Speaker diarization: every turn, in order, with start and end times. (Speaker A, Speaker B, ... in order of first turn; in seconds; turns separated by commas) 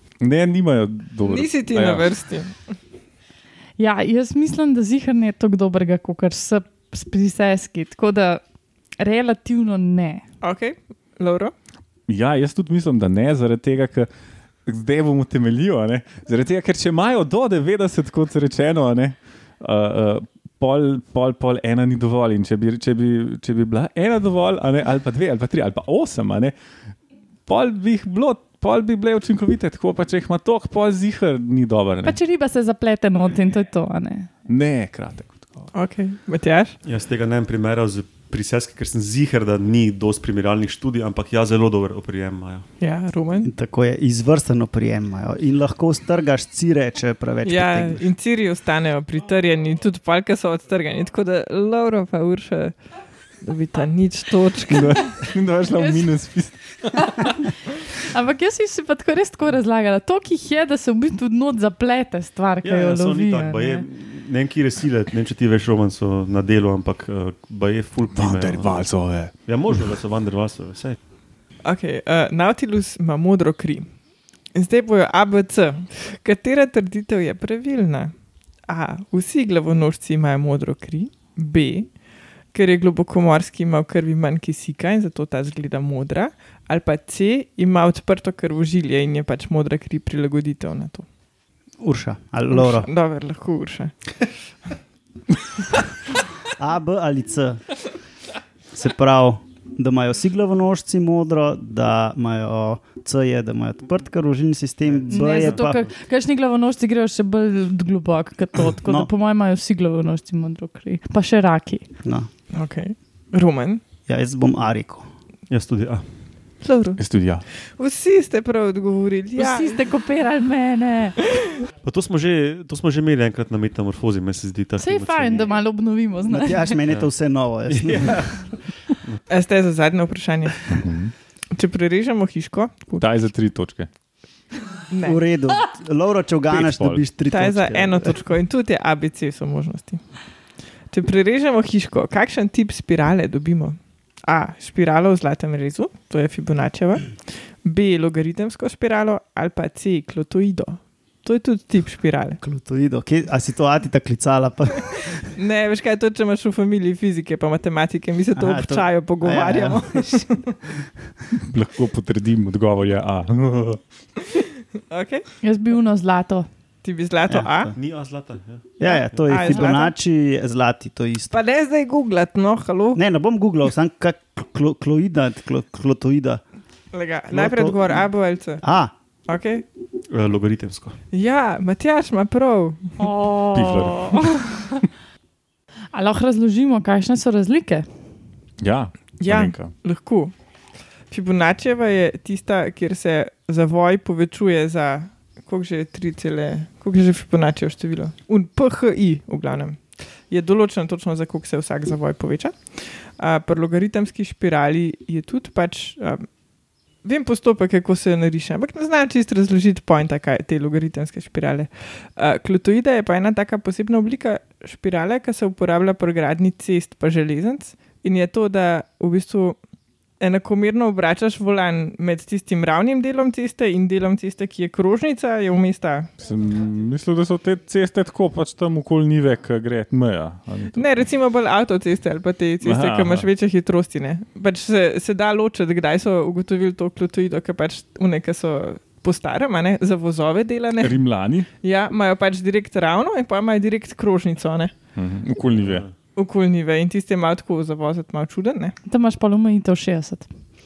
Speaker A: 0.2-2.1, Speaker B: 1.2-2.6, Speaker C: 3.8-8.4, Speaker C: 9.0-10.2, Speaker B: 10.4-11.5, Speaker A: 12.1-14.1, Speaker A: 14.7-26.5, Speaker A: 27.5-32.2, Speaker C: 32.0-34.3, Speaker A: 34.5-35.7, Speaker B: 35.7-36.8, Speaker D: 36.8-42.6, Speaker B: 42.8-43.5, Speaker E: 43.4-48.0, Speaker B: 47.4-52.8, Speaker B: 53.4-55.1, Speaker A: 54.7-57.2, Speaker C: 58.0-63.8, Speaker D: 62.6-68.8, Speaker A: 68.1-69.3, Speaker D: 69.5-71.0, Speaker B: 71.6-73.9, Speaker B: 74.5-78.1, Speaker B: 78.7-81.9, Speaker B: 82.5-91.0, Speaker E: 91.8-92.9, Speaker B: 92.5-93.9, Speaker E: 96.6-97.6, Speaker E: 98.7-105.8, Speaker D: 104.9-105.8, Speaker C: 105.1-111.9, Speaker E: 108.8-109.1, Speaker B: 112.5-113.8, Speaker E: 114.1-115.0, Speaker D: 115.5-116.0, Speaker B: 116.6-117.0, Speaker A: 117.0-117.4, Speaker B: 117.8-119.8, Speaker C: 119.3-121.2, Speaker D: 121.8-125.5, Speaker C: 124.8-126.8, Speaker E: 126.3-128.2, Speaker D: 127.7-128.5, Speaker B: 129.3-130.7, Speaker A: 130.7-131.1, Speaker B: 131.5-133.0, Speaker A: 133.0-133.9, Speaker B: 134.9-135.2, Speaker E: 135.0-138.2, Speaker A: 136.5-137.0, Speaker B: 137.3-140.0, Speaker B: 140.9-152.4, Speaker E: 152.4-155.2, Speaker B: 155.3-160.6, Speaker E: 158.3-160.2, Speaker A: 161.3-163.8, Speaker B: 164.2-165.2, Speaker C: 165.4-166.5, Speaker B: 166.8-167.7, Speaker E: 167.3-167.7, Speaker D: 167.7-168.7, Speaker E: 168.8-171.4, Speaker B: 168.8-169.9, Speaker B: 171.3-173.0, Speaker E: 172.9-176.4, Speaker B: 176.9-178.6, Speaker E: 177.3-178.0, Speaker E: 178.6-178.9, Speaker B: 179.3-179.6, Speaker D: 180.1-181.0, Speaker B: 181.1-183.1, Speaker C: 183.0-184.9, Speaker A: 183.5-184.4, Speaker C: 185.9-187.8, Speaker A: 188.6-189.7, Speaker B: 189.2-190.3, Speaker B: 191.1-206.2, Speaker B: 207.0-219.6, Speaker B: 220.2-226.1, Speaker A: 226.2-230.9, Speaker B: 230.7-241.0, Speaker A: 232.6-233.3, Speaker A: 240.8-241.5, Speaker B: 241.6-244.7, Speaker A: 244.9-245.9, Speaker D: 245.6-245.9, Speaker B: 246.2-248.7, Speaker C: 248.9-250.2